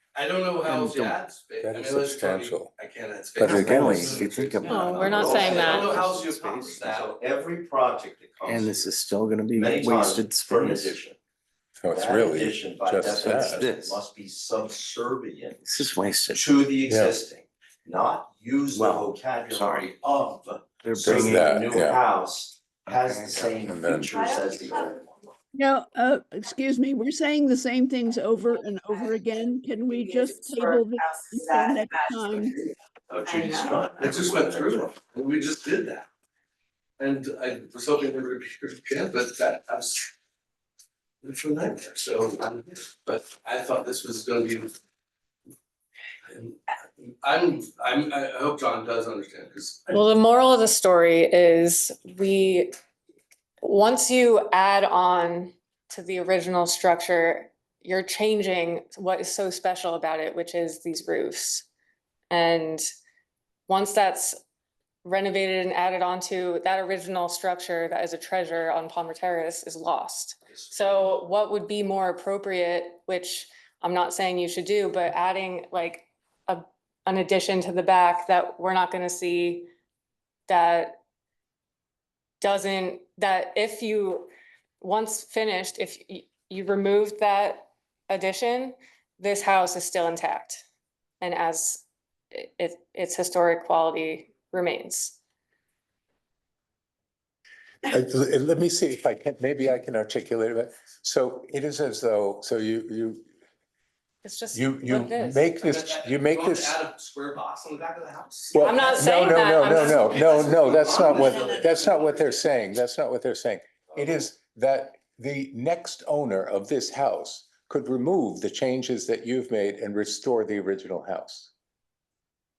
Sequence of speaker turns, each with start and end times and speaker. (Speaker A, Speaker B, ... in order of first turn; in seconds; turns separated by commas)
Speaker A: 0.1-7.1, Speaker B: 0.6-1.2, Speaker C: 1.6-2.7, Speaker B: 3.4-6.8, Speaker D: 3.5-3.8, Speaker E: 4.6-5.9, Speaker D: 5.0-5.8, Speaker D: 6.8-8.9, Speaker B: 8.4-11.0, Speaker D: 9.5-11.2, Speaker C: 11.8-13.6, Speaker D: 11.9-25.3, Speaker B: 13.2-14.0, Speaker B: 15.6-16.4, Speaker C: 16.9-17.1, Speaker B: 18.7-19.9, Speaker B: 20.8-21.7, Speaker C: 21.0-22.0, Speaker B: 22.9-23.6, Speaker C: 23.6-24.1, Speaker F: 25.5-32.6, Speaker D: 33.1-34.9, Speaker A: 34.0-36.1, Speaker A: 37.0-40.1, Speaker A: 41.2-44.7, Speaker A: 46.2-49.9, Speaker E: 49.9-52.7, Speaker E: 53.6-61.6, Speaker E: 62.3-62.9, Speaker E: 63.7-64.4, Speaker E: 65.0-79.7, Speaker E: 80.5-81.0, Speaker E: 82.4-90.6, Speaker E: 91.2-95.2, Speaker C: 97.8-103.2, Speaker E: 104.2-105.6, Speaker C: 104.5-106.8, Speaker A: 105.5-108.9, Speaker C: 108.5-121.5, Speaker E: 108.6-110.4, Speaker A: 110.5-111.5